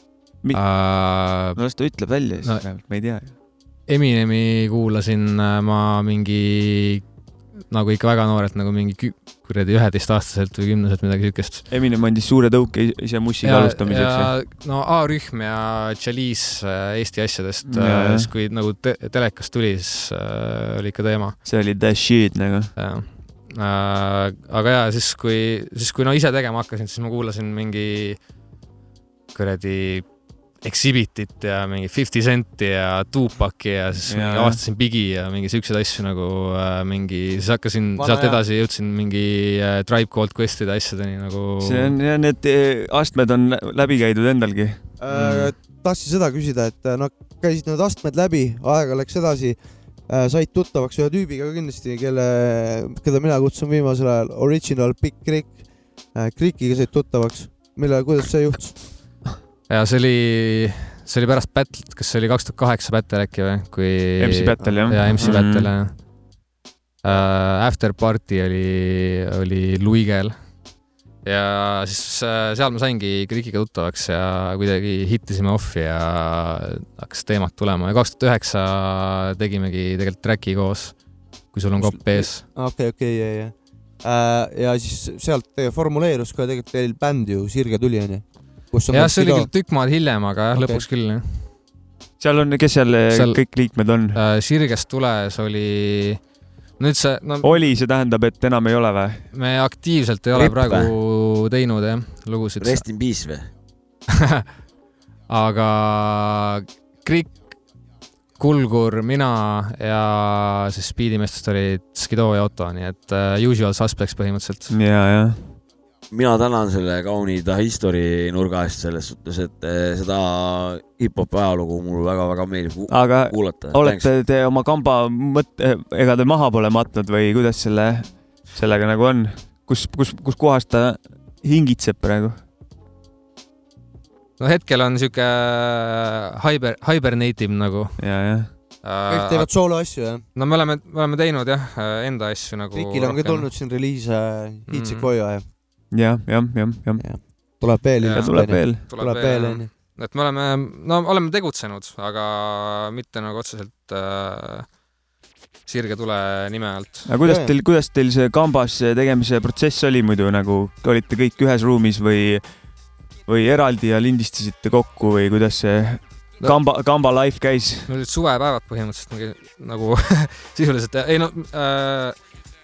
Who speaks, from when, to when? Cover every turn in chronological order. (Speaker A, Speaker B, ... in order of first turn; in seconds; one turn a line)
Speaker A: 0.4-3.3
Speaker B: 0.5-1.9
Speaker B: 2.4-2.6
Speaker B: 3.9-7.0
Speaker B: 7.7-11.7
Speaker A: 11.7-14.3
Speaker B: 13.4-21.4
Speaker A: 17.7-18.3
Speaker A: 21.4-22.7
Speaker B: 22.8-28.2
Speaker B: 29.3-30.1
Speaker B: 30.6-42.0
Speaker A: 34.1-34.6
Speaker C: 38.0-38.4
Speaker A: 41.6-44.8
Speaker C: 45.0-55.6
Speaker B: 45.1-45.5
Speaker C: 56.1-59.0
Speaker B: 59.7-66.0
Speaker A: 64.2-65.7
Speaker B: 67.0-70.3
Speaker B: 71.2-81.0
Speaker B: 81.5-82.4
Speaker C: 81.8-89.5
Speaker B: 88.9-91.5
Speaker C: 90.6-90.8
Speaker A: 92.2-94.2
Speaker B: 93.1-96.2
Speaker B: 96.8-97.7
Speaker A: 97.4-99.2
Speaker B: 99.3-102.8
Speaker D: 100.3-100.9
Speaker D: 102.6-103.5
Speaker B: 105.3-107.3
Speaker B: 108.4-114.7
Speaker A: 114.7-115.4
Speaker D: 116.1-124.1
Speaker A: 122.9-132.4
Speaker B: 134.4-139.7
Speaker A: 138.0-138.6
Speaker C: 139.1-140.2
Speaker B: 140.3-143.5
Speaker C: 142.7-145.5
Speaker B: 144.7-145.1
Speaker A: 145.9-147.6
Speaker C: 147.0-149.7
Speaker B: 148.0-154.7
Speaker A: 148.1-148.8
Speaker B: 155.7-157.1
Speaker A: 157.1-162.6
Speaker C: 157.2-157.5
Speaker A: 163.2-167.9
Speaker B: 167.9-172.1